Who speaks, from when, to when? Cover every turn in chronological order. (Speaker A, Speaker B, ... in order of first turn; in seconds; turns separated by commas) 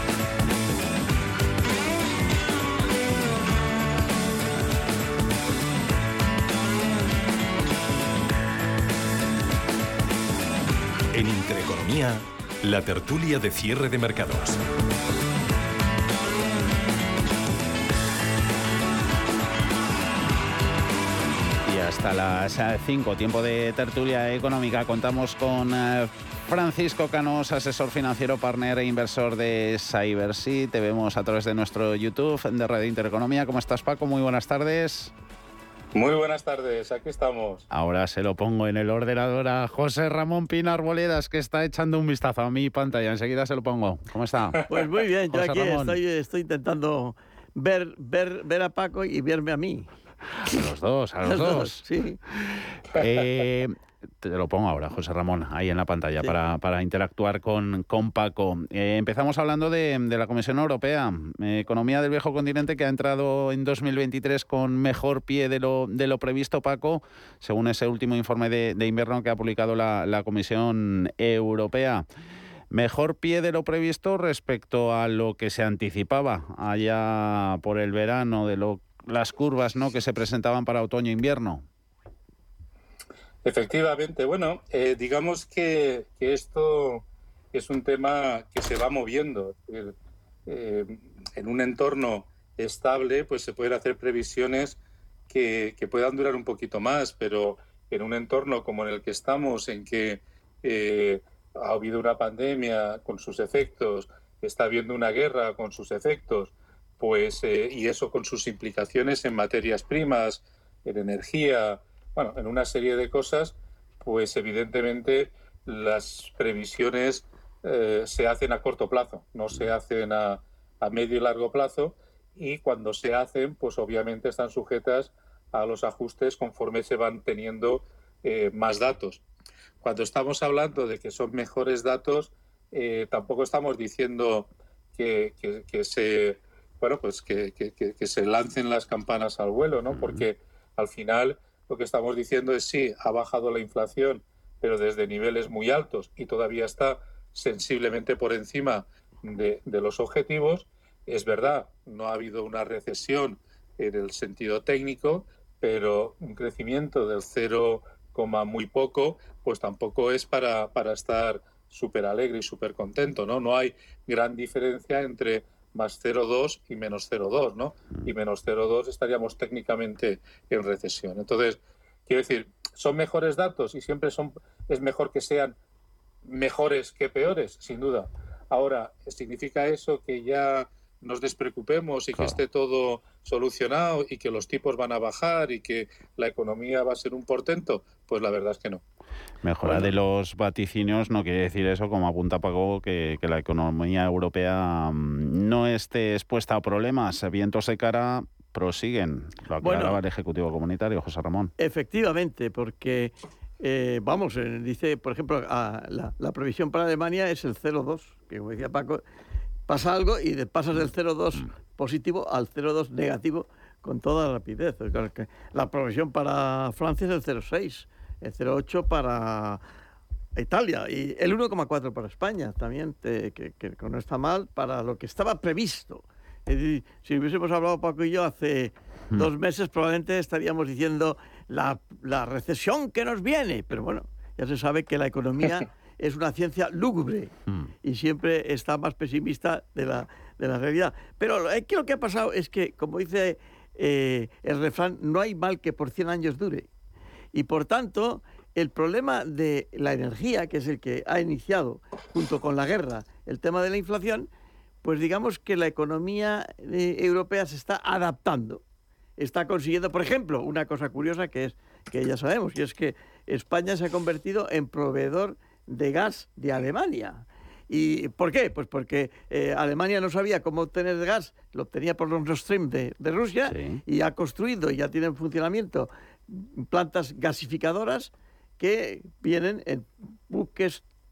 Speaker A: 11.1-14.6, Speaker B: 21.6-35.1, Speaker C: 35.9-37.6, Speaker B: 37.7-44.6, Speaker D: 44.7-49.9, Speaker B: 45.3-46.0, Speaker B: 50.5-51.8, Speaker D: 51.2-52.2, Speaker B: 52.9-72.1, Speaker B: 72.7-81.7, Speaker C: 83.4-90.0, Speaker C: 90.5-94.8, Speaker C: 95.3-129.2, Speaker C: 129.8-175.6, Speaker B: 139.9-140.2, Speaker C: 176.2-188.8, Speaker B: 189.4-201.5, Speaker D: 189.7-189.9, Speaker D: 199.6-200.0, Speaker D: 201.6-209.0, Speaker D: 209.7-219.6, Speaker D: 220.3-246.7, Speaker D: 247.3-254.3, Speaker D: 254.8-258.6, Speaker D: 259.2-280.8, Speaker B: 273.5-273.8